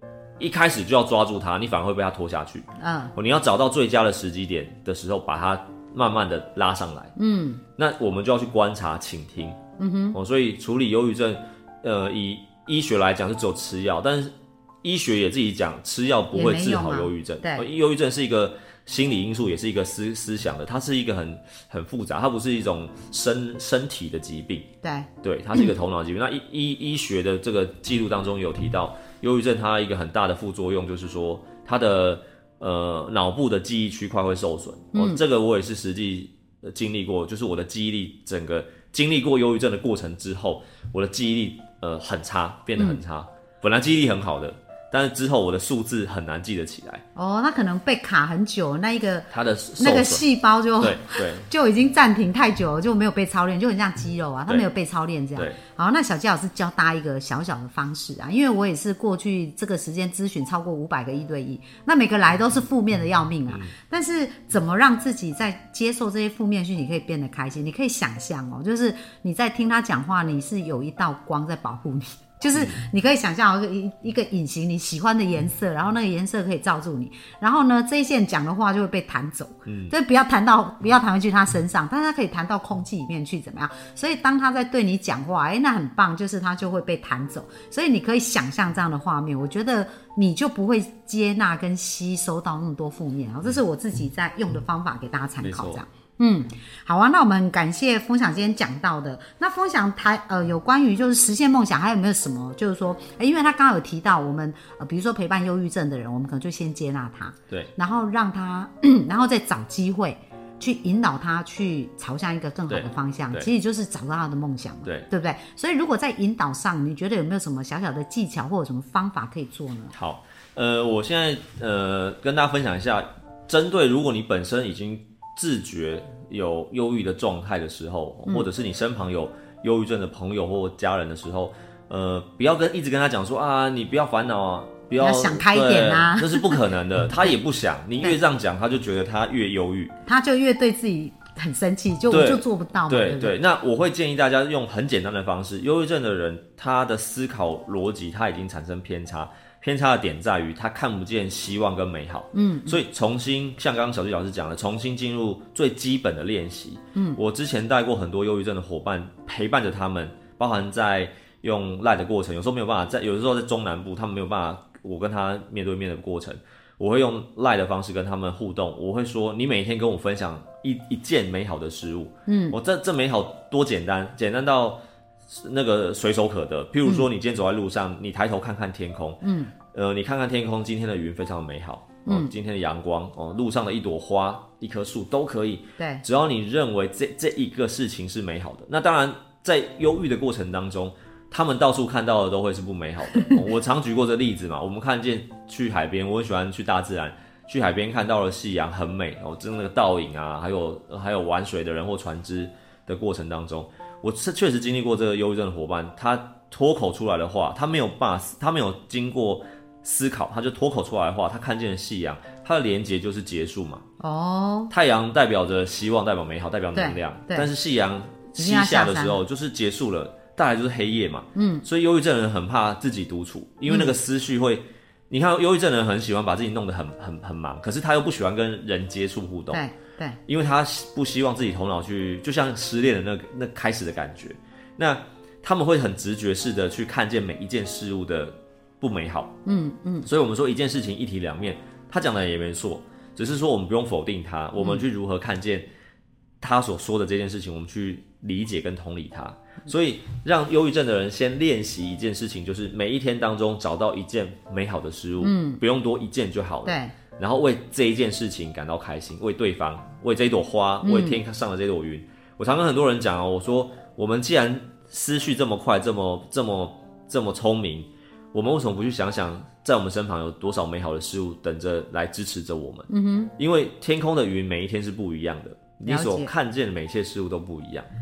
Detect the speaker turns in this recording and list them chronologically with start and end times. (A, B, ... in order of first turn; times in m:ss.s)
0:00.4-0:07.1 A
0:02.8-0:03.1 B
0:07.2-0:07.6 B
0:07.8-0:09.6 A
0:09.8-0:10.2 B
0:10.1-0:24.6 A
0:16.3-0:17.6 B
0:24.8-0:25.1 B
0:25.2-0:47.0 A
0:34.9-0:35.2 B
0:42.8-0:43.0 B
0:47.1-1:59.9 B
0:49.3-0:50.2 A
0:50.8-0:51.5 A
1:03.5-1:03.7 A
1:19.7-1:19.9 A
1:35.4-1:35.8 A
1:52.7-1:53.5 A
1:59.9-2:19.9 A
2:15.0-2:16.6 B
2:20.0-2:23.4 B
2:22.1-2:59.2 A
2:32.3-2:32.8 B
2:36.9-2:37.2 B
2:52.2-2:52.6 B
2:59.2-2:59.5 B
2:59.7-3:33.8 A
3:02.0-3:02.3 B
3:05.8-3:06.0 B
3:34.0-3:34.7 B
3:34.7-3:49.6 A
3:36.7-3:37.5 B
3:38.4-3:39.2 B
3:41.3-3:41.7 B
3:43.7-3:44.0 B
3:49.5-3:50.2 B
3:50.3-3:59.3 A
3:59.4-4:00.1 B
4:00.0-4:05.7 A
4:04.6-4:04.8 B
4:06.4-4:37.9 A
4:15.2-4:15.6 B
4:16.6-4:17.0 B
4:20.8-4:21.2 B
4:32.9-4:33.3 B
4:35.8-4:36.3 B